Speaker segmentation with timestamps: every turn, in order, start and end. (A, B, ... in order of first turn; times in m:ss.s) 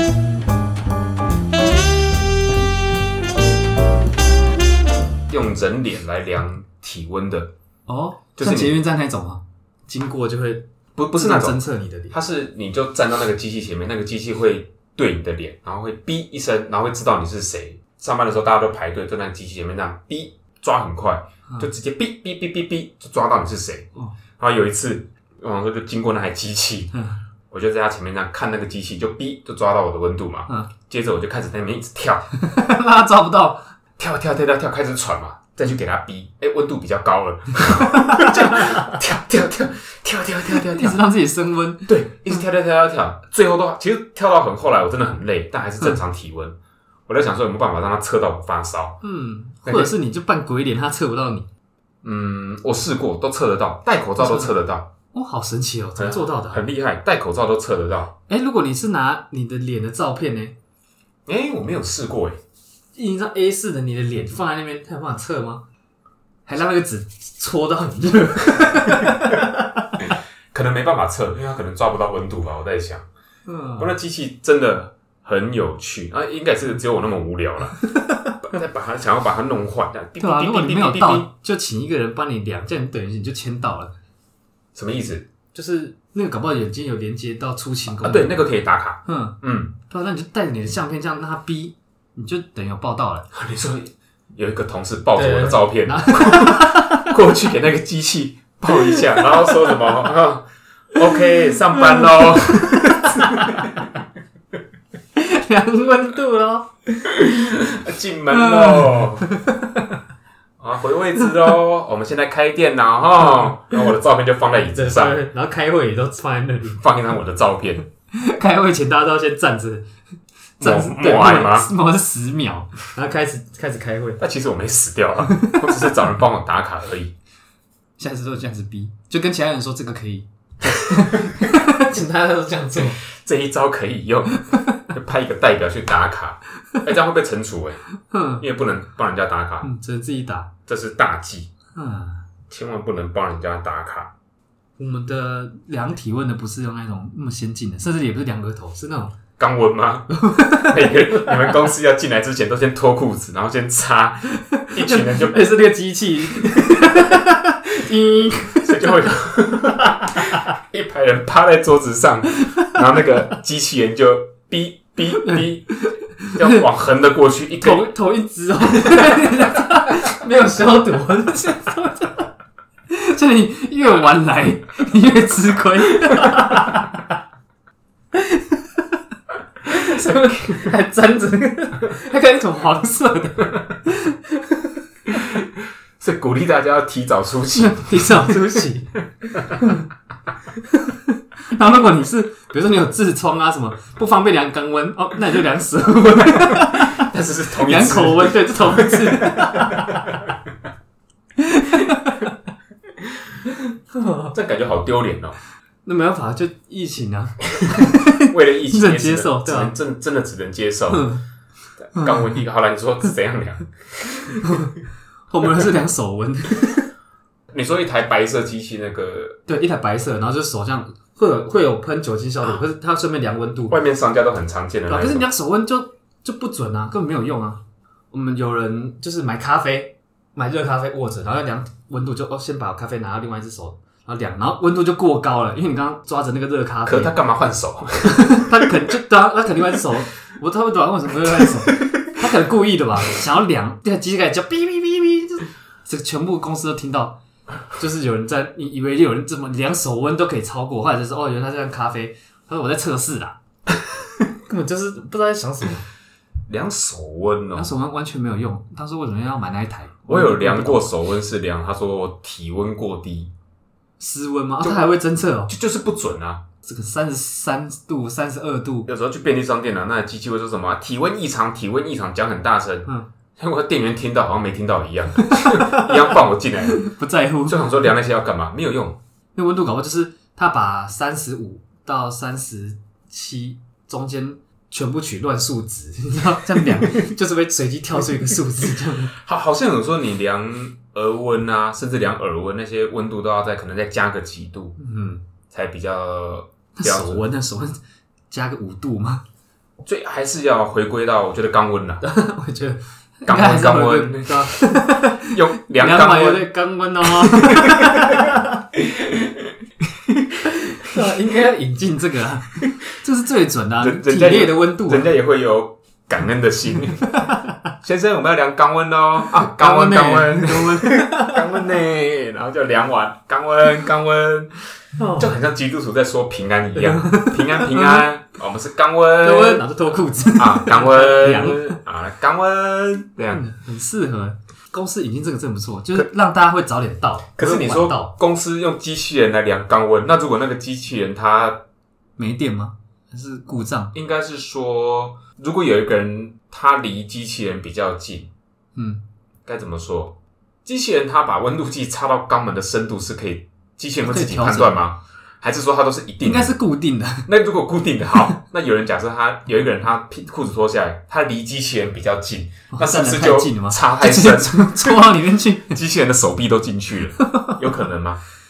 0:05.3-0:07.5 A
0:07.9-0:12.2 B
0:08.4-0:08.8 A
0:11.0-0:11.6 A
0:12.1-0:26.9 A
0:26.9-0:27.2 B
0:27.5-0:32.3 A
0:32.4-0:33.6 B
0:34.0-0:41.0 A
0:38.0-0:38.9 B
0:40.5-0:42.4 B
0:41.9-0:46.5 A
0:47.1-0:49.0 A
0:49.0-0:51.4 B
0:49.6-0:50.0 A
0:52.0-0:54.9 A
0:54.2-0:54.5 B
0:55.1-0:56.6 B
0:56.0-0:58.1 A
0:58.3-1:00.5 B
1:01.3-1:02.4 A
1:03.0-1:05.6 B
1:06.5-1:09.9 B
1:10.5-1:13.1 A
1:13.5-1:13.9 B
1:13.8-1:17.8 A
1:18.0-1:18.3 B
1:18.4-1:21.3 A
1:20.2-1:23.9 B
1:24.7-1:25.3 A
1:25.5-1:28.4 B
1:28.0-1:29.8 A
1:29.1-1:29.4 B
1:29.9-1:33.3 B
1:33.3-1:43.9 A
1:35.2-1:37.2 B
1:38.7-1:39.2 B
1:41.8-1:43.8 B
1:45.2-1:47.2 B
1:47.1-1:49.3 A
1:48.3-1:50.0 B
1:50.6-1:55.2 A
1:54.8-1:56.8 B
1:56.8-1:57.9 A
1:58.1-1:59.9 B
2:00.6-2:01.7 A
2:00.6-2:04.2 B
2:04.2-2:07.1 A
2:05.4-2:05.8 B
2:08.0-2:13.0 B
2:10.7-2:11.3 A
2:12.8-2:17.8 A
2:18.1-2:18.4 B
2:18.4-2:19.7 A
2:19.6-2:20.5 B
2:20.7-2:21.5 A
2:21.8-2:22.2 B
2:22.5-2:24.1 A
2:24.8-2:29.2 B
2:29.4-2:35.6 A
2:30.2-2:31.6 B
2:34.7-2:39.1 B
2:38.5-2:47.9 A
2:39.8-2:40.2 B
2:45.2-2:46.6 B
2:47.6-2:52.3 B
2:52.9-2:57.0 B
2:58.1-2:58.9 B
2:59.6-3:04.8 B
3:05.1-3:08.7 A
3:07.5-3:09.9 B
3:10.7-3:20.2 B
3:16.5-3:20.0 A
3:21.4-3:22.3 B
3:23.5-3:24.3 B
3:24.3-3:25.3 A
3:25.8-3:29.7 B
3:28.2-3:31.1 A
3:30.9-3:31.2 B
3:31.8-3:34.4 A
3:32.0-3:32.2 B
3:34.3-3:34.8 B
3:35.3-3:36.9 B
3:37.5-3:39.4 A
3:39.5-3:43.8 B
3:43.7-3:45.3 A
3:44.9-3:47.6 B
3:48.1-3:57.2 B
3:56.9-3:58.6 A
3:58.1-4:07.2 B
4:07.8-4:13.4 B
4:14.3-4:15.8 B
4:16.5-4:17.7 A
4:17.5-4:20.9 B
4:20.1-4:23.3 A
4:24.0-4:25.5 B
4:24.6-4:25.0 A
4:25.5-4:26.4 A
4:26.6-4:28.9 B
4:28.9-4:36.9 A
4:35.4-4:35.9 B
4:36.7-4:37.7 B
4:37.4-4:39.0 A
4:39.4-4:49.1 B
4:49.1-4:54.8 A
4:54.8-4:55.2 B
4:55.5-4:57.2 A
4:56.8-4:57.8 B
4:58.3-4:59.2 B
4:59.8-5:02.0 A
5:02.0-5:08.6 B
5:03.3-5:06.5 A
5:07.1-5:09.4 A
5:10.5-5:15.1 B
5:13.8-5:17.2 A
5:17.1-5:17.4 B
5:17.8-5:24.6 A
5:19.4-5:21.4 B
5:25.0-5:25.4 B
5:25.2-5:29.7 A
5:26.8-5:28.1 B
5:29.2-5:31.8 B
5:30.4-5:33.4 A
5:33.3-5:38.1 B
5:37.4-5:41.6 A
5:42.2-5:43.9 B
5:43.9-5:48.3 A
5:48.8-5:49.0 B
5:49.5-5:56.6 A
5:54.0-5:54.8 B
5:56.2-5:57.3 B
5:57.3-6:05.1 A
6:02.7-6:05.8 B
6:05.7-6:08.2 A
6:07.2-6:07.5 B